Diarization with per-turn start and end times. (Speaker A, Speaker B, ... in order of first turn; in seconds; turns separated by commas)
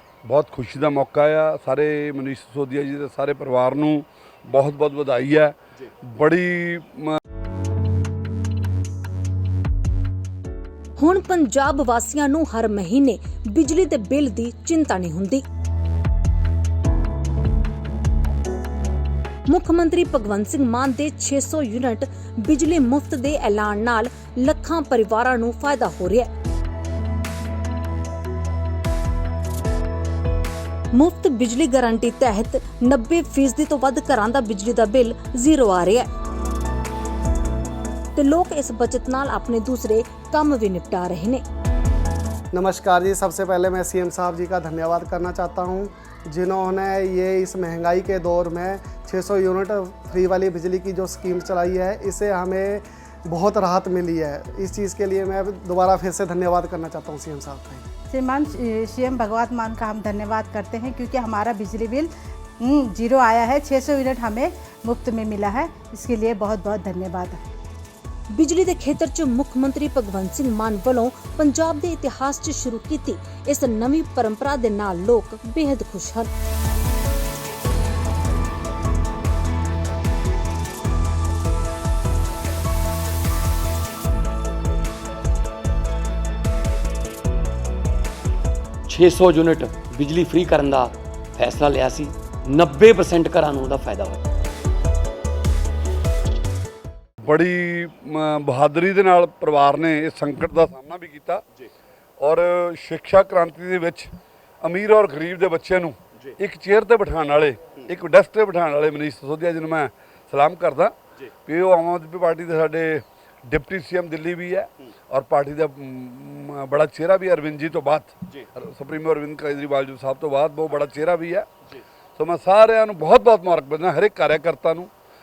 Speaker A: 0.2-5.5, Speaker A: 6.1-7.2, Speaker B: 11.0-15.4, Speaker B: 19.5-26.3, Speaker B: 30.9-36.1, Speaker B: 38.1-41.4, Speaker C: 42.5-57.9, Speaker D: 58.1-67.5, Speaker B: 68.3-76.3, Speaker E: 88.9-94.2, Speaker A: 97.2-101.4, Speaker A: 102.2-104.1, Speaker A: 104.6-110.9, Speaker A: 111.4-121.5, Speaker A: 122.2-124.9